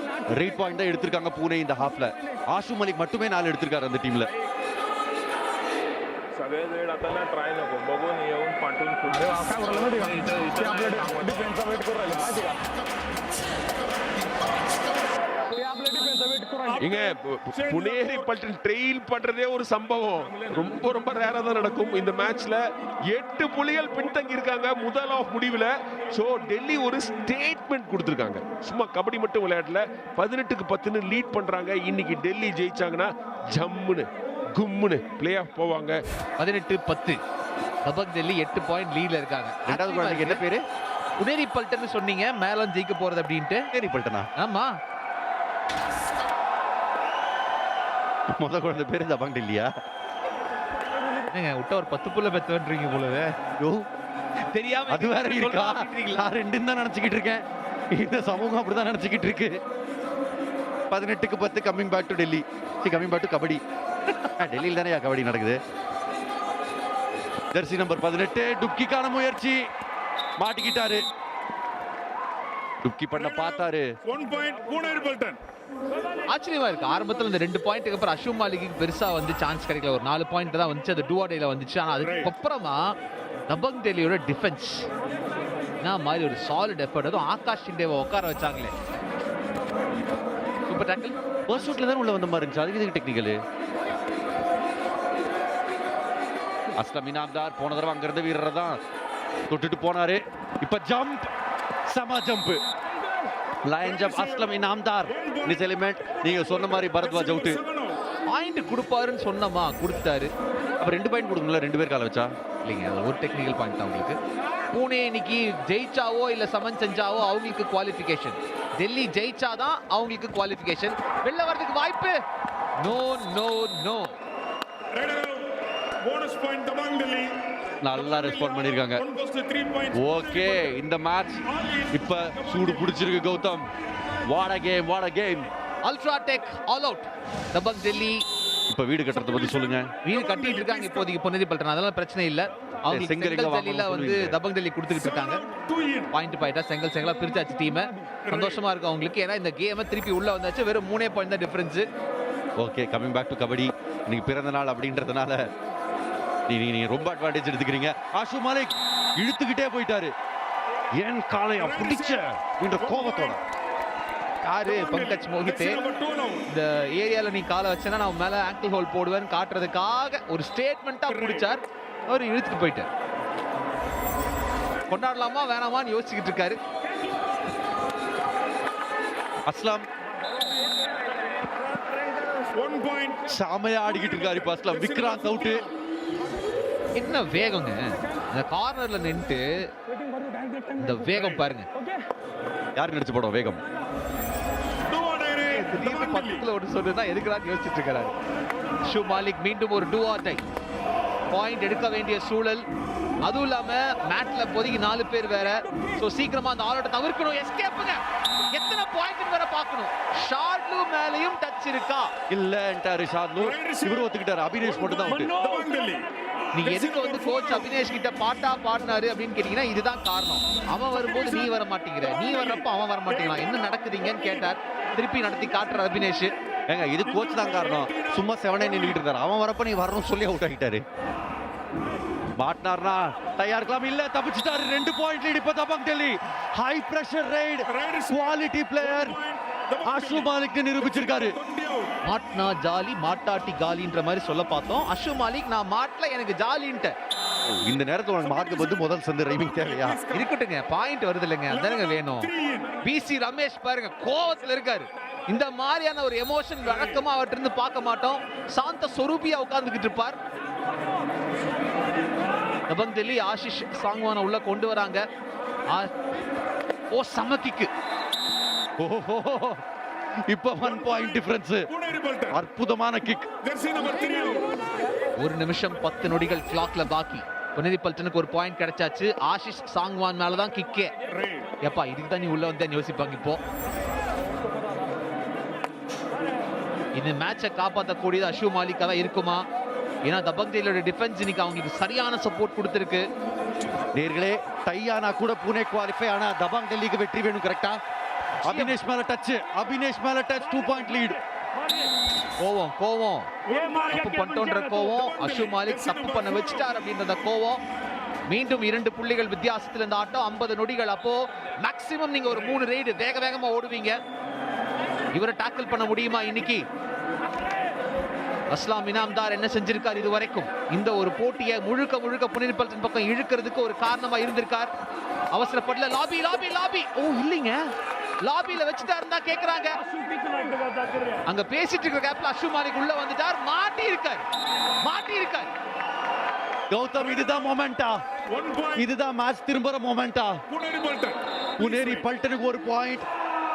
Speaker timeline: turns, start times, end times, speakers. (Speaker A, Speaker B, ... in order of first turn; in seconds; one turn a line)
Speaker A: 0.3-4.3
Speaker B: 6.4-12.2
Speaker C: 16.8-36.0
Speaker D: 36.4-37.2
Speaker D: 37.8-40.4
Speaker A: 39.7-40.6
Speaker D: 41.2-43.7
Speaker A: 43.7-44.3
Speaker D: 44.4-44.7
Speaker A: 48.3-49.7
Speaker D: 51.3-53.3
Speaker A: 53.6-53.8
Speaker D: 54.5-56.3
Speaker A: 54.9-59.6
Speaker A: 60.9-63.6
Speaker A: 64.2-65.6
Speaker A: 67.5-69.6
Speaker A: 70.4-71.0
Speaker A: 72.8-73.9
Speaker E: 74.1-75.4
Speaker D: 76.3-82.9
Speaker E: 82.0-82.3
Speaker D: 83.5-84.9
Speaker D: 85.8-88.7
Speaker D: 90.7-91.7
Speaker A: 91.5-93.4
Speaker A: 96.8-98.8
Speaker A: 99.5-101.3
Speaker A: 101.9-102.6
Speaker A: 103.7-107.6
Speaker E: 107.2-108.0
Speaker D: 108.3-110.3
Speaker A: 110.8-112.3
Speaker D: 112.6-114.2
Speaker D: 114.7-122.2
Speaker D: 122.8-124.2
Speaker E: 124.9-125.4
Speaker E: 126.0-127.4
Speaker A: 127.8-129.1
Speaker E: 128.0-130.6
Speaker A: 129.9-133.7
Speaker E: 131.6-132.9
Speaker A: 134.3-135.5
Speaker D: 135.8-138.2
Speaker A: 138.7-139.9
Speaker D: 140.1-145.5
Speaker E: 140.1-141.1
Speaker A: 142.9-144.4
Speaker E: 145.2-146.1
Speaker D: 146.1-151.9
Speaker E: 148.3-148.6
Speaker A: 152.6-155.4
Speaker A: 156.5-160.1
Speaker A: 161.0-163.4
Speaker E: 161.8-162.2
Speaker E: 162.9-163.3
Speaker D: 164.4-165.8
Speaker E: 164.8-166.4
Speaker D: 166.5-172.9
Speaker D: 174.9-176.6
Speaker A: 179.5-179.9
Speaker E: 182.5-183.2
Speaker A: 183.3-185.7
Speaker E: 184.8-185.6
Speaker D: 187.0-189.7
Speaker D: 190.7-191.7
Speaker A: 192.8-193.6
Speaker E: 194.9-196.4
Speaker D: 195.5-198.1
Speaker D: 198.9-200.4
Speaker D: 201.3-202.6
Speaker D: 203.2-208.0
Speaker D: 208.5-212.1
Speaker A: 212.3-215.4
Speaker E: 213.5-213.9
Speaker E: 214.8-216.1
Speaker D: 216.5-226.3
Speaker E: 216.7-217.4
Speaker A: 226.7-230.8
Speaker E: 227.1-228.2
Speaker A: 232.4-239.2
Speaker E: 237.8-238.2
Speaker E: 238.9-240.3
Speaker A: 239.8-241.4
Speaker E: 241.1-241.9
Speaker D: 242.1-246.9
Speaker A: 247.5-250.0
Speaker E: 248.3-248.7
Speaker E: 249.6-250.2
Speaker D: 250.1-252.3
Speaker E: 251.6-252.7
Speaker D: 252.8-260.2
Speaker D: 262.7-265.0
Speaker D: 266.9-267.7
Speaker A: 268.8-269.6
Speaker A: 270.3-271.6
Speaker E: 271.8-272.3
Speaker A: 272.3-273.3
Speaker E: 273.4-274.5
Speaker D: 275.2-280.9
Speaker E: 281.1-281.5
Speaker D: 281.6-283.4
Speaker D: 286.9-289.4
Speaker D: 290.1-293.0
Speaker A: 293.9-297.8
Speaker D: 298.5-298.8
Speaker A: 298.5-301.2
Speaker D: 302.4-303.3
Speaker E: 303.5-306.3
Speaker D: 303.9-307.6
Speaker D: 308.3-314.0
Speaker D: 315.1-316.6
Speaker D: 318.5-324.7
Speaker D: 325.3-327.6
Speaker D: 328.2-329.8
Speaker D: 331.3-334.2
Speaker D: 334.8-335.5
Speaker A: 336.7-337.9
Speaker E: 338.3-338.8
Speaker A: 338.8-340.4
Speaker E: 340.5-342.0
Speaker A: 341.6-343.1